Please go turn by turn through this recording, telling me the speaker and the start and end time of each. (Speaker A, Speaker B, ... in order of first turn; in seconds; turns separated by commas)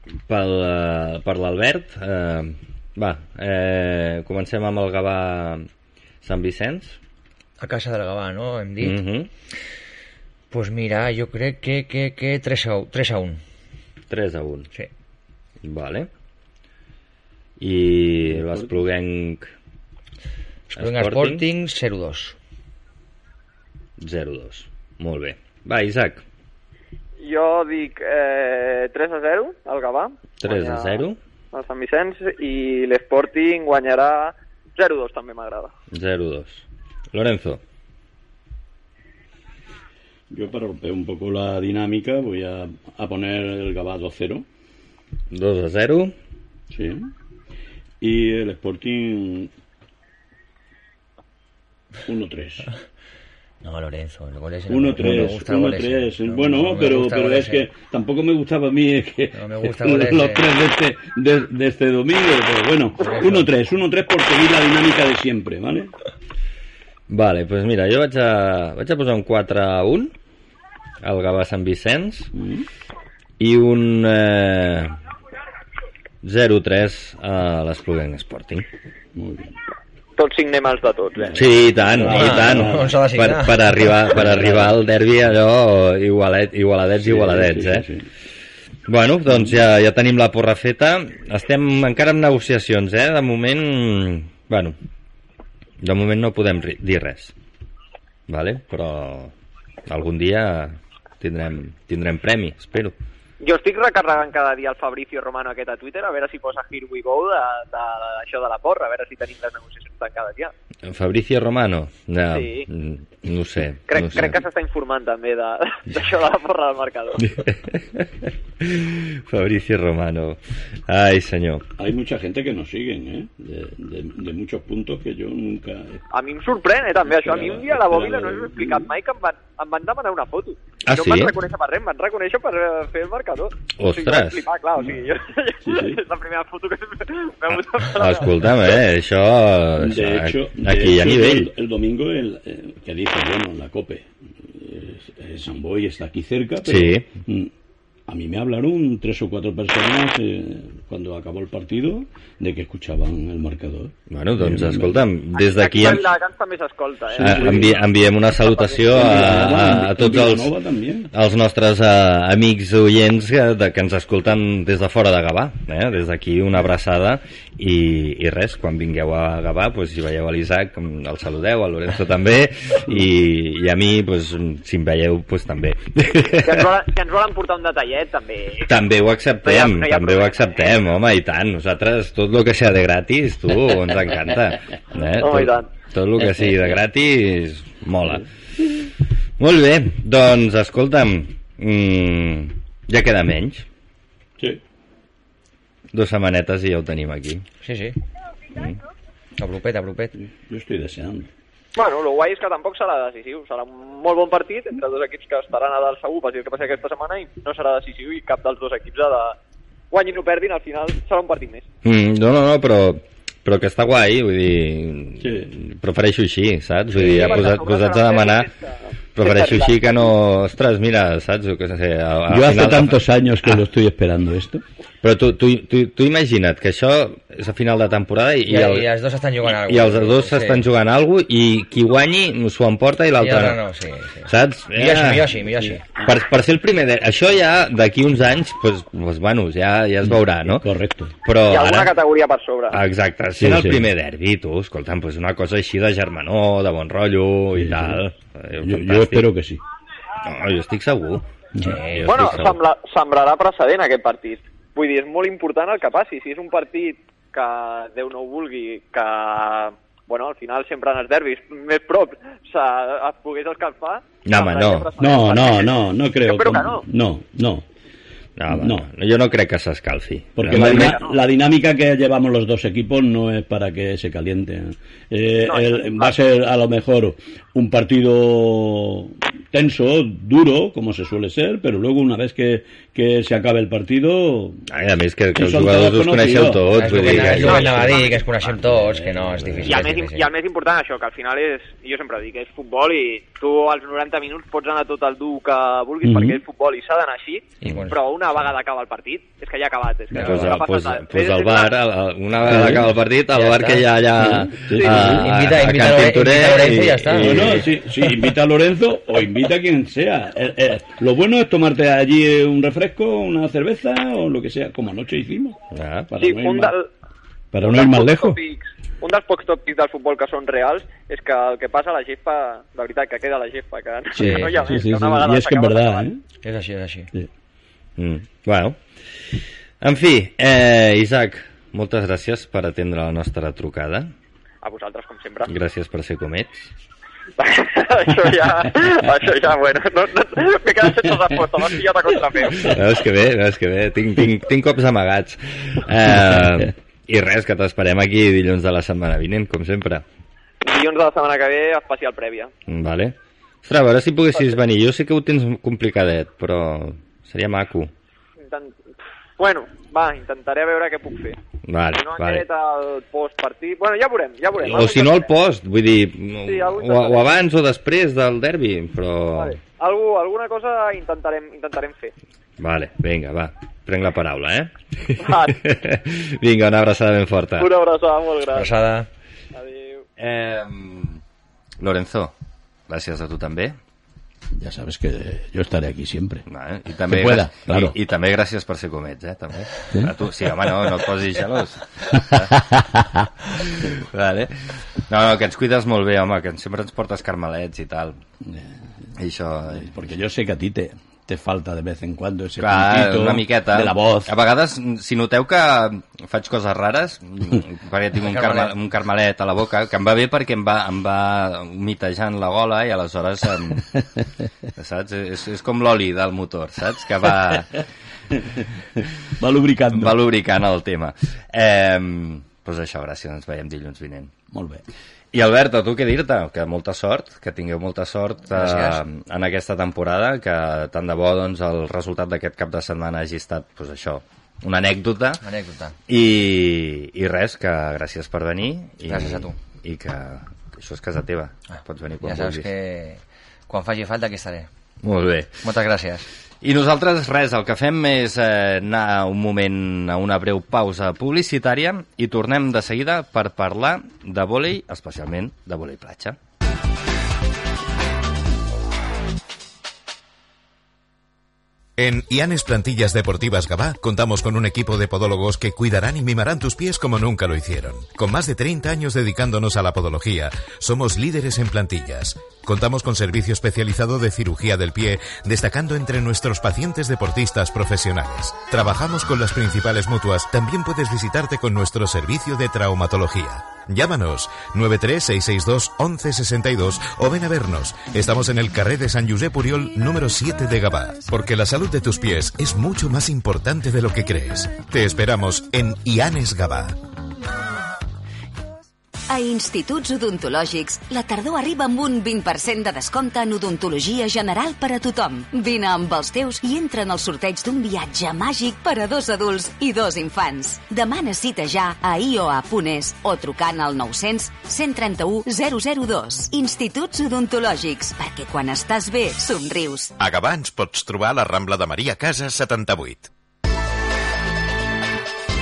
Speaker A: 0.3-5.7, Speaker A: 6.2-7.0, Speaker B: 7.6-9.0, Speaker A: 8.8-9.3, Speaker B: 10.5-13.4, Speaker A: 14.1-14.7, Speaker A: 15.6-16.1, Speaker A: 17.6-19.5, Speaker C: 18.3-18.8, Speaker B: 20.7-22.4, Speaker A: 20.8-21.4, Speaker A: 24.0-26.2, Speaker D: 27.2-35.7, Speaker A: 30.4-31.2, Speaker A: 35.9-37.6, Speaker C: 40.3-44.5, Speaker A: 45.3-46.1, Speaker C: 46.7-47.1, Speaker C: 48.0-49.5, Speaker C: 52.1-52.7, Speaker B: 53.6-57.7, Speaker C: 54.7-65.9, Speaker B: 59.3-60.5, Speaker B: 63.0-63.5, Speaker A: 67.1-70.1, Speaker A: 71.0-72.3, Speaker C: 72.3-72.7, Speaker A: 73.4-75.0, Speaker A: 76.2-78.7, Speaker C: 79.2-79.5, Speaker D: 80.2-81.4, Speaker C: 81.2-83.0, Speaker A: 81.3-87.9, Speaker B: 82.1-83.9, Speaker C: 84.1-84.8, Speaker C: 87.0-88.1, Speaker A: 88.9-94.8, Speaker C: 89.3-89.5, Speaker A: 95.8-97.3, Speaker A: 98.3-99.3, Speaker A: 99.9-103.0, Speaker D: 103.4-110.5, Speaker A: 110.8-114.4, Speaker D: 112.3-112.7, Speaker D: 113.9-117.3, Speaker A: 117.3-121.7, Speaker C: 121.8-126.0, Speaker D: 126.1-138.8, Speaker C: 127.1-128.9, Speaker A: 130.9-131.3, Speaker A: 133.8-134.4, Speaker C: 135.6-136.0, Speaker A: 137.5-141.5, Speaker C: 139.8-147.5, Speaker A: 146.6-147.1, Speaker C: 148.1-155.0, Speaker A: 154.1-156.1, Speaker D: 155.4-157.9, Speaker C: 157.1-157.8, Speaker A: 157.2-160.5, Speaker D: 158.4-159.7, Speaker C: 158.9-161.1, Speaker A: 161.1-176.7, Speaker D: 176.4-178.7, Speaker A: 178.7-188.3, Speaker D: 179.4-180.8, Speaker D: 185.2-185.7, Speaker A: 189.4-193.7, Speaker A: 195.9-197.4, Speaker B: 197.6-198.0, Speaker A: 198.5-198.8, Speaker B: 199.4-200.2, Speaker C: 200.2-201.3, Speaker D: 201.8-209.4, Speaker D: 209.9-211.7, Speaker A: 211.8-218.5, Speaker C: 215.2-215.5, Speaker D: 217.0-220.0, Speaker C: 217.0-217.5, Speaker A: 219.2-223.6, Speaker C: 222.3-224.6, Speaker A: 225.0-228.9, Speaker B: 228.5-230.7, Speaker A: 229.4-233.6, Speaker B: 233.2-235.8, Speaker A: 234.2-235.3, Speaker C: 235.5-236.2, Speaker A: 236.0-240.7, Speaker C: 240.6-241.1, Speaker A: 241.2-241.9, Speaker D: 241.5-242.8, Speaker A: 242.7-249.3, Speaker C: 243.4-243.9, Speaker C: 247.6-248.0, Speaker C: 248.6-249.6, Speaker A: 250.2-252.6, Speaker C: 251.6-251.8, Speaker B: 251.6-252.4, Speaker D: 252.1-266.9, Speaker A: 264.2-264.9, Speaker C: 265.0-267.6, Speaker A: 268.4-271.0, Speaker C: 268.5-268.9, Speaker C: 270.4-284.6, Speaker D: 270.5-271.2, Speaker D: 275.4-276.1, Speaker A: 284.7-288.1, Speaker C: 285.4-287.7, Speaker B: 286.7-290.3, Speaker D: 287.4-288.2, Speaker C: 288.4-289.7, Speaker D: 289.7-301.8, Speaker C: 296.0-296.4, Speaker B: 297.6-298.4, Speaker B: 300.1-300.6, Speaker A: 300.2-307.7, Speaker C: 302.4-302.8, Speaker B: 303.3-303.9, Speaker C: 304.2-305.3, Speaker B: 304.8-307.7, Speaker C: 307.2-315.6, Speaker A: 315.7-316.1, Speaker C: 316.1-316.7, Speaker D: 316.2-316.9, Speaker C: 317.5-318.4, Speaker D: 317.7-326.0, Speaker C: 324.1-326.2, Speaker B: 324.2-324.7, Speaker B: 326.4-327.1, Speaker A: 328.0-328.8, Speaker A: 329.8-334.1, Speaker D: 334.6-335.5, Speaker A: 335.5-336.7, Speaker D: 337.4-342.8, Speaker A: 342.6-350.1, Speaker D: 350.6-352.5, Speaker A: 352.7-357.9, Speaker D: 358.4-361.4, Speaker A: 361.7-362.4, Speaker D: 362.0-365.3, Speaker A: 364.6-369.6, Speaker D: 366.4-367.3, Speaker D: 369.4-372.1, Speaker A: 372.6-377.7, Speaker D: 375.2-375.6, Speaker D: 377.6-378.7, Speaker B: 378.5-379.1, Speaker D: 379.5-380.1, Speaker A: 380.2-381.2, Speaker A: 381.8-382.3, Speaker A: 382.9-383.8, Speaker C: 384.6-386.4, Speaker A: 386.5-392.6, Speaker C: 387.1-387.9, Speaker C: 389.9-391.0, Speaker C: 392.1-393.3, Speaker A: 393.5-398.2, Speaker C: 398.5-398.7, Speaker A: 399.2-399.9, Speaker C: 399.8-404.3, Speaker A: 402.6-413.9, Speaker B: 408.2-408.7, Speaker A: 414.8-417.8, Speaker C: 419.4-420.2, Speaker A: 419.9-424.3, Speaker C: 424.5-424.8, Speaker A: 425.3-435.4, Speaker B: 428.5-429.0, Speaker B: 435.4-435.9, Speaker A: 436.1-442.7, Speaker B: 439.1-439.6, Speaker B: 441.7-444.7, Speaker A: 445.0-445.6, Speaker B: 445.6-446.3, Speaker A: 446.6-456.4, Speaker E: 462.0-496.9, Speaker F: 499.3-520.1, Speaker E: 520.2-523.3